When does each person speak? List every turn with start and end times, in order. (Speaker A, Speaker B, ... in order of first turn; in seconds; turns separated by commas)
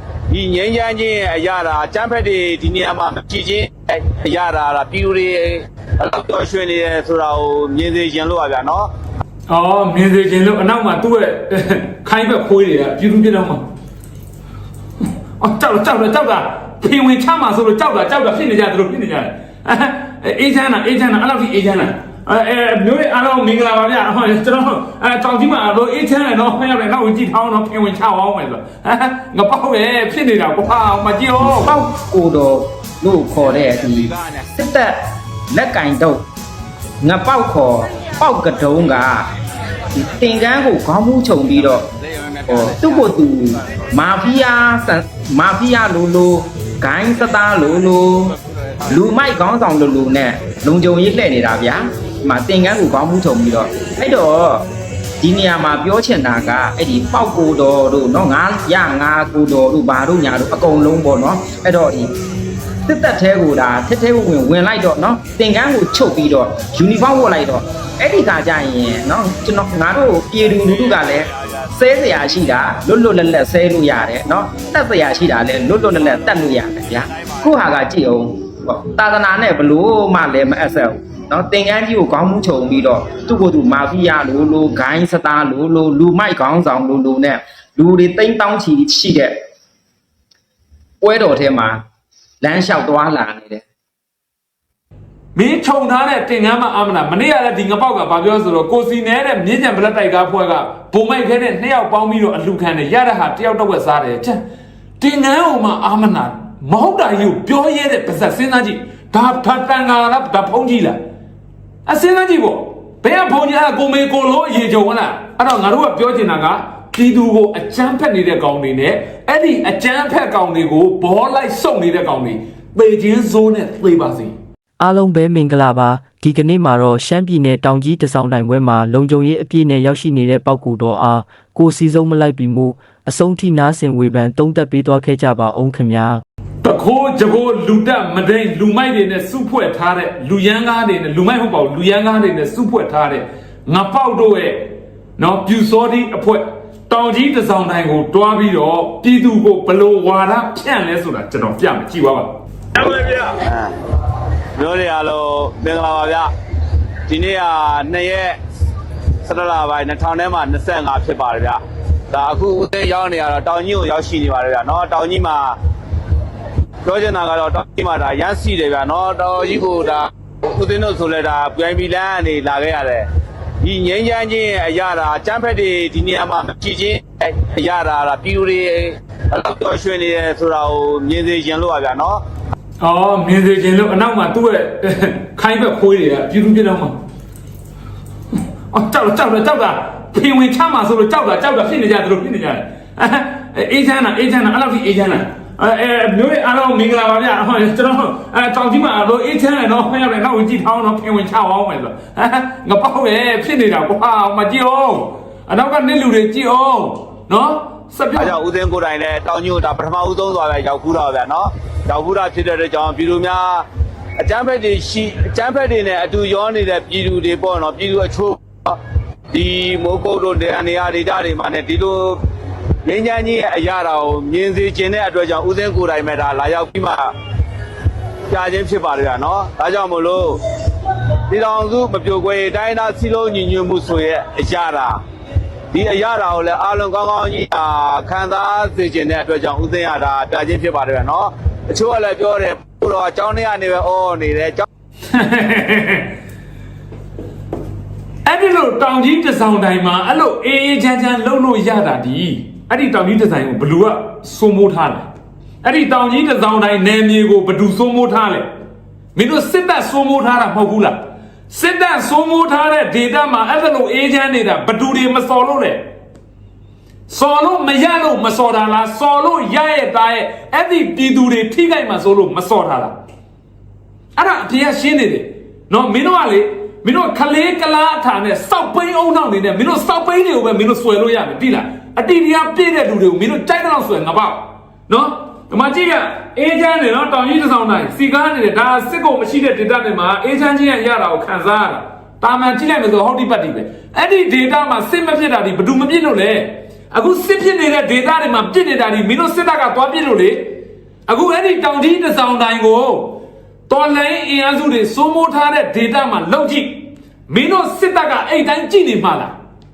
Speaker A: 0.3-8.9, Speaker B: 9.5-13.6, Speaker B: 15.4-31.7, Speaker C: 31.4-35.0, Speaker A: 33.4-34.5, Speaker C: 35.5-36.2, Speaker C: 37.0-39.3, Speaker C: 39.9-41.9, Speaker C: 42.5-48.3, Speaker C: 48.9-54.6, Speaker C: 55.2-62.1, Speaker C: 62.9-89.3, Speaker A: 70.8-71.1, Speaker C: 91.0-91.8, Speaker C: 92.4-93.6, Speaker B: 95.3-104.4, Speaker B: 105.0-111.0, Speaker B: 111.8-124.3, Speaker D: 124.8-136.2, Speaker B: 136.6-152.3, Speaker A: 152.7-153.7, Speaker A: 154.6-156.3, Speaker A: 157.1-158.3, Speaker A: 159.2-161.6, Speaker A: 162.1-165.5, Speaker A: 166.8-173.1, Speaker A: 173.6-182.2, Speaker B: 182.8-187.0, Speaker B: 188.7-208.3, Speaker A: 208.2-213.6, Speaker A: 214.2-218.8, Speaker A: 219.3-222.2, Speaker A: 222.8-227.1, Speaker A: 228.3-230.4, Speaker A: 231.3-235.0, Speaker A: 235.7-244.7, Speaker B: 245.1-246.1, Speaker B: 248.2-255.1, Speaker B: 255.6-258.5, Speaker B: 259.1-265.8, Speaker B: 267.1-273.0, Speaker B: 274.1-309.3